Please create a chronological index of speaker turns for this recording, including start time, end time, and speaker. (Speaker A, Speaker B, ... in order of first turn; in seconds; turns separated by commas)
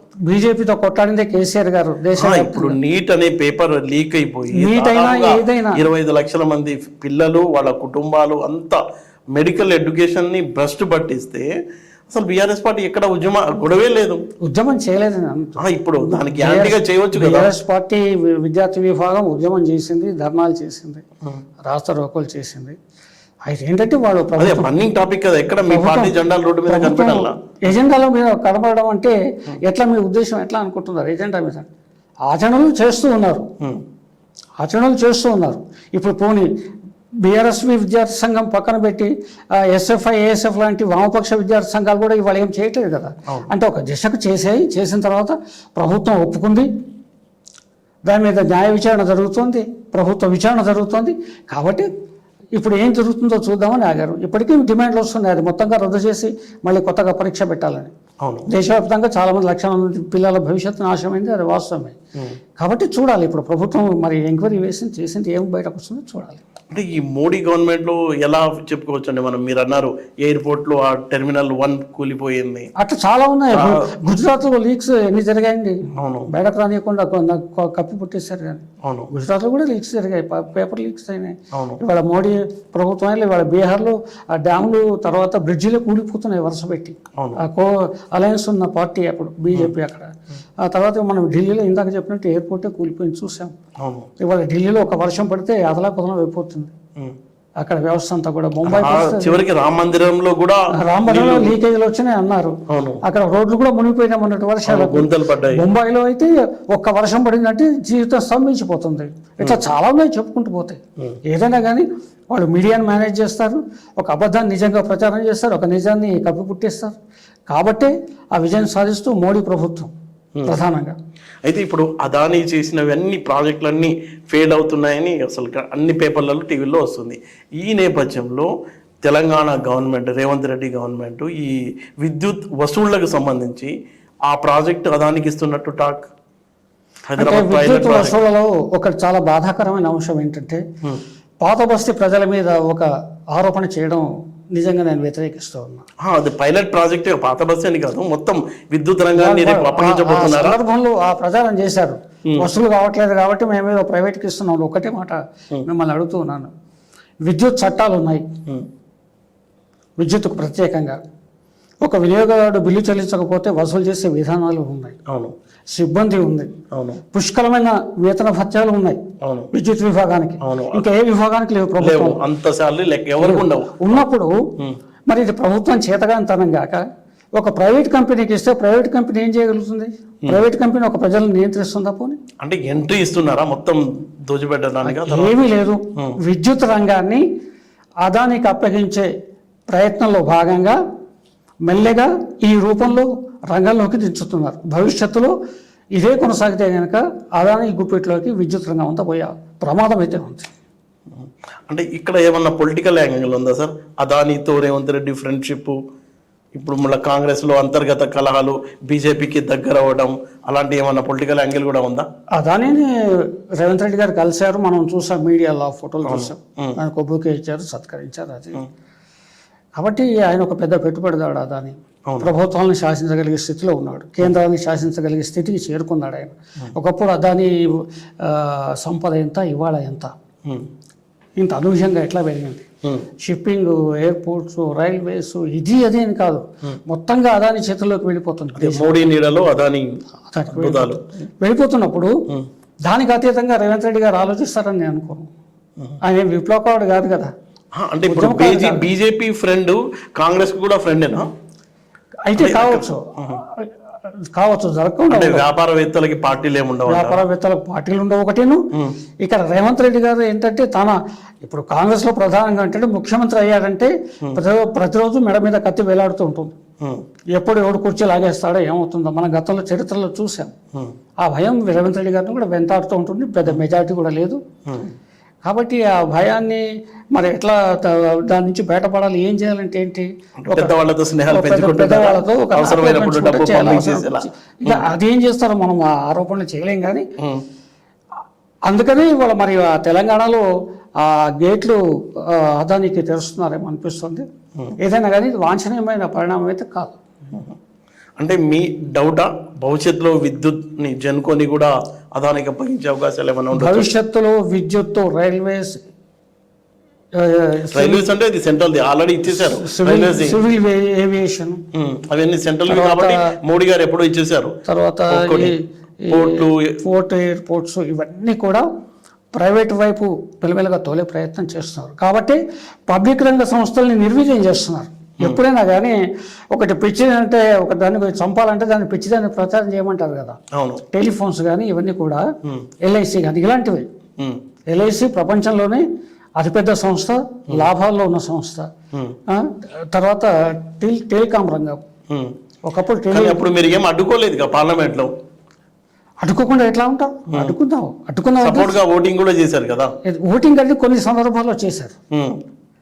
Speaker A: 0.3-2.8, Speaker B: 2.2-8.8, Speaker A: 4.5-5.8, Speaker B: 9.3-11.5, Speaker B: 12.1-14.2, Speaker A: 14.4-21.0, Speaker B: 15.6-17.5, Speaker A: 21.6-22.8, Speaker A: 23.5-24.7, Speaker B: 24.4-27.4, Speaker A: 25.6-31.7, Speaker A: 32.3-33.5, Speaker A: 34.6-36.5, Speaker A: 37.2-46.7, Speaker A: 48.1-51.9, Speaker A: 52.5-57.9, Speaker B: 58.2-58.5, Speaker A: 58.5-62.0, Speaker A: 62.6-66.4, Speaker B: 66.7-72.7, Speaker A: 72.8-75.8, Speaker B: 73.5-73.8, Speaker B: 76.0-76.3, Speaker A: 76.3-90.1, Speaker B: 78.8-79.1, Speaker B: 81.5-81.8, Speaker A: 90.6-93.5, Speaker B: 93.8-94.1, Speaker A: 94.2-96.7, Speaker A: 97.6-99.4, Speaker B: 98.7-101.6, Speaker A: 100.7-110.8, Speaker B: 102.7-103.0, Speaker B: 104.7-105.6, Speaker A: 111.3-117.0, Speaker A: 117.5-119.9, Speaker A: 120.5-121.0, Speaker B: 121.4-128.5, Speaker B: 129.0-133.7, Speaker B: 134.3-136.1, Speaker B: 137.1-138.2, Speaker A: 137.2-140.6, Speaker A: 141.4-145.9, Speaker B: 146.0-150.6, Speaker A: 149.2-156.5, Speaker A: 157.3-158.2, Speaker A: 160.0-161.0, Speaker A: 161.8-165.0, Speaker B: 165.1-165.3, Speaker A: 165.7-166.5, Speaker B: 166.7-167.0, Speaker A: 167.1-169.0, Speaker B: 169.2-169.5, Speaker A: 169.5-172.2, Speaker B: 170.4-170.8, Speaker B: 171.8-174.1, Speaker A: 173.2-174.3, Speaker A: 175.1-176.8, Speaker A: 177.3-182.2, Speaker B: 182.4-185.4, Speaker A: 184.8-187.2, Speaker A: 188.0-189.1, Speaker A: 189.7-190.8, Speaker A: 191.7-195.3, Speaker A: 196.0-200.5, Speaker B: 201.1-205.8, Speaker B: 206.6-212.1, Speaker A: 212.4-218.6, Speaker B: 216.0-216.8, Speaker A: 219.8-230.1, Speaker A: 231.4-232.7, Speaker A: 233.2-239.1, Speaker B: 238.6-240.0, Speaker A: 240.3-242.1, Speaker B: 240.5-241.1, Speaker A: 242.9-245.3, Speaker A: 246.0-247.3, Speaker B: 247.8-251.3, Speaker A: 248.1-248.9, Speaker A: 252.3-253.7, Speaker B: 252.4-253.4, Speaker A: 254.3-255.4, Speaker B: 255.1-257.2, Speaker A: 256.9-258.6, Speaker A: 259.2-266.6, Speaker A: 267.4-270.5, Speaker A: 271.2-274.4, Speaker B: 274.7-274.9, Speaker A: 275.4-276.6, Speaker A: 277.1-280.8, Speaker B: 280.4-284.9, Speaker A: 281.3-287.1, Speaker B: 287.2-287.4, Speaker A: 288.7-290.4, Speaker A: 291.0-294.2, Speaker A: 294.8-297.0, Speaker B: 298.2-303.9, Speaker A: 303.5-305.8, Speaker A: 307.2-308.1, Speaker B: 307.7-310.4, Speaker A: 309.3-311.6, Speaker B: 311.7-314.6, Speaker A: 312.7-313.4, Speaker A: 314.7-318.6, Speaker B: 315.1-315.6, Speaker B: 316.1-316.8, Speaker A: 319.3-326.0, Speaker A: 326.5-330.4, Speaker B: 330.5-330.8, Speaker A: 330.9-332.2, Speaker A: 332.8-333.9, Speaker A: 334.7-335.8, Speaker A: 336.4-338.7, Speaker A: 339.3-341.8, Speaker A: 342.7-343.4, Speaker B: 343.1-345.1, Speaker A: 346.2-348.8, Speaker B: 348.4-349.9, Speaker A: 350.1-351.9, Speaker B: 352.1-352.4